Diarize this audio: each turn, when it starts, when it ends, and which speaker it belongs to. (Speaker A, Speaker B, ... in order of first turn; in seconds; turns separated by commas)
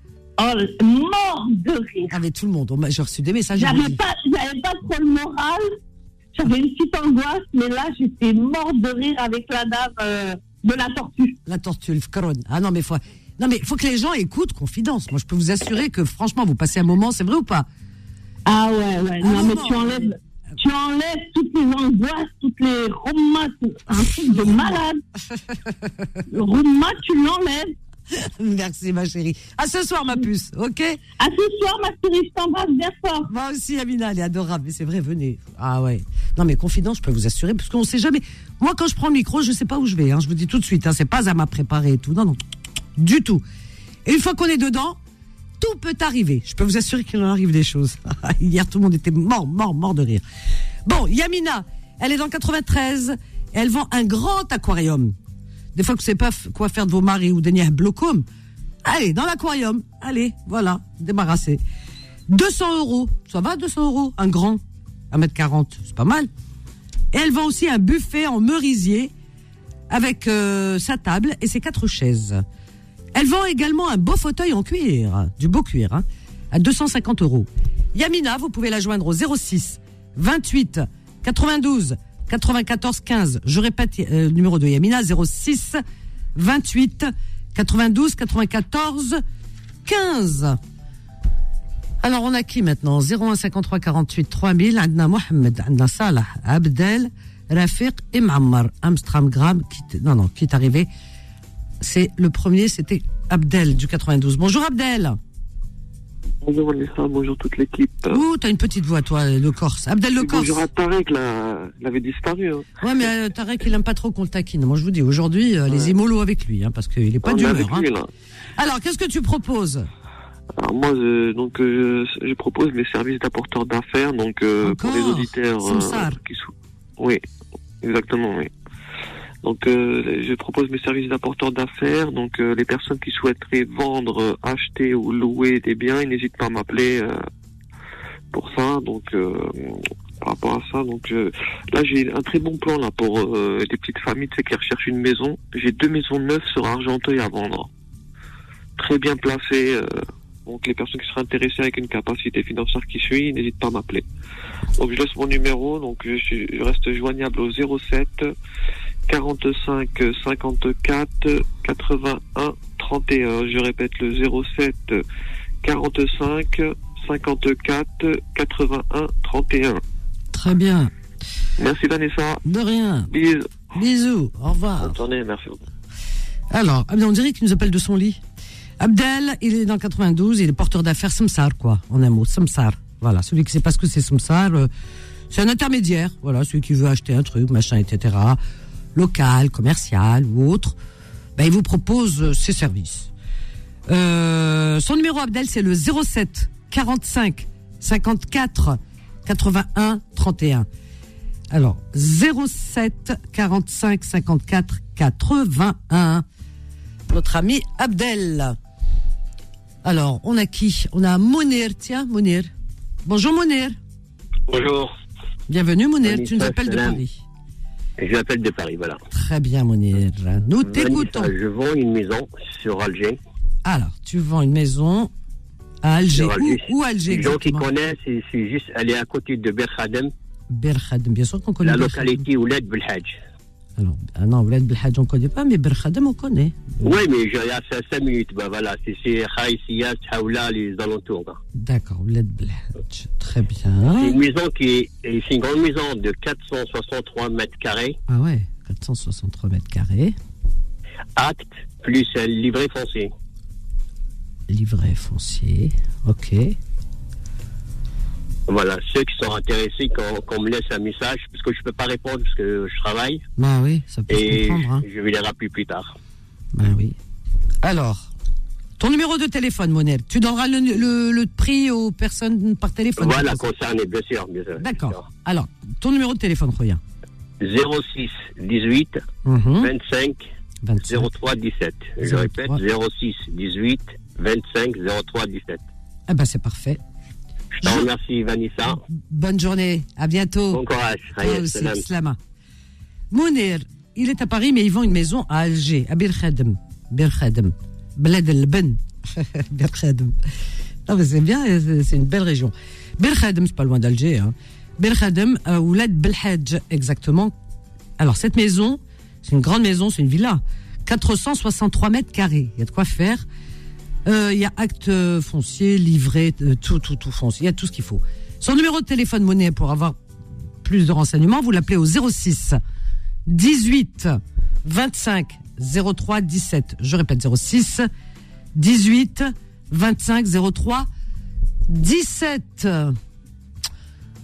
Speaker A: 0.4-2.1, Speaker B: 2.1-4.0, Speaker A: 3.5-5.7, Speaker A: 6.3-11.4, Speaker B: 11.4-17.7, Speaker A: 18.4-25.0, Speaker B: 19.2-20.1, Speaker B: 24.3-24.7, Speaker A: 26.3-27.7, Speaker B: 28.1-31.0, Speaker A: 31.2-33.3, Speaker B: 33.3-42.4, Speaker B: 43.0-43.4, Speaker B: 44.0-45.0, Speaker B: 45.6-50.2, Speaker B: 50.8-55.1, Speaker B: 55.7-58.2, Speaker B: 58.8-61.6, Speaker B: 62.3-66.3, Speaker B: 67.1-69.1, Speaker B: 69.9-72.4, Speaker B: 73.1-85.8, Speaker B: 86.3-89.2, Speaker B: 89.8-90.6, Speaker B: 92.0-100.9, Speaker B: 101.8-105.2, Speaker C: 106.4-108.2, Speaker B: 108.1-110.6, Speaker C: 110.2-112.7, Speaker B: 112.8-117.9, Speaker C: 115.7-115.9, Speaker C: 117.2-118.1, Speaker B: 118.6-119.9, Speaker C: 120.6-127.2, Speaker B: 124.6-126.2, Speaker C: 127.8-128.5, Speaker C: 129.4-137.2, Speaker C: 138.3-147.7, Speaker C: 148.8-154.0, Speaker C: 154.8-158.3, Speaker C: 159.1-165.0, Speaker C: 165.6-169.8, Speaker B: 170.3-170.9, Speaker C: 171.6-172.4, Speaker B: 172.4-173.1, Speaker C: 173.1-173.5, Speaker B: 173.7-175.0, Speaker C: 174.8-175.6, Speaker B: 176.5-178.2, Speaker B: 178.8-184.7, Speaker B: 185.3-188.4, Speaker B: 188.9-190.8, Speaker B: 191.3-193.1, Speaker B: 193.9-200.7, Speaker B: 201.5-206.2, Speaker B: 207.1-208.6, Speaker B: 209.8-212.5, Speaker B: 213.0-213.8, Speaker D: 214.5-214.9, Speaker B: 215.5-217.2, Speaker D: 216.0-217.0, Speaker D: 218.0-219.0, Speaker B: 219.1-221.3, Speaker D: 220.6-223.2, Speaker B: 223.6-225.1, Speaker B: 225.8-227.7, Speaker D: 226.1-230.1, Speaker B: 230.5-232.2, Speaker D: 231.6-233.2, Speaker B: 233.8-236.7, Speaker D: 236.8-241.4, Speaker B: 241.6-244.2, Speaker D: 244.0-247.9, Speaker B: 248.1-250.2, Speaker D: 251.2-253.1, Speaker B: 254.5-256.6, Speaker D: 258.5-263.2, Speaker B: 263.4-264.8, Speaker D: 264.1-265.9, Speaker B: 266.5-266.9, Speaker B: 267.6-268.1, Speaker B: 268.8-273.4, Speaker D: 273.0-275.1, Speaker B: 274.6-276.8, Speaker D: 277.4-279.0, Speaker B: 279.2-279.7, Speaker D: 279.6-280.2, Speaker B: 280.6-281.1, Speaker D: 280.8-285.6, Speaker B: 282.0-282.6, Speaker B: 286.1-286.8, Speaker D: 287.6-288.8, Speaker B: 288.9-290.6, Speaker D: 290.5-291.8, Speaker B: 291.1-292.2, Speaker B: 293.1-300.1, Speaker B: 300.9-307.3, Speaker B: 308.0-313.2, Speaker B: 314.0-320.0, Speaker B: 320.6-322.6, Speaker B: 323.2-327.9, Speaker B: 328.5-330.9, Speaker B: 331.7-333.0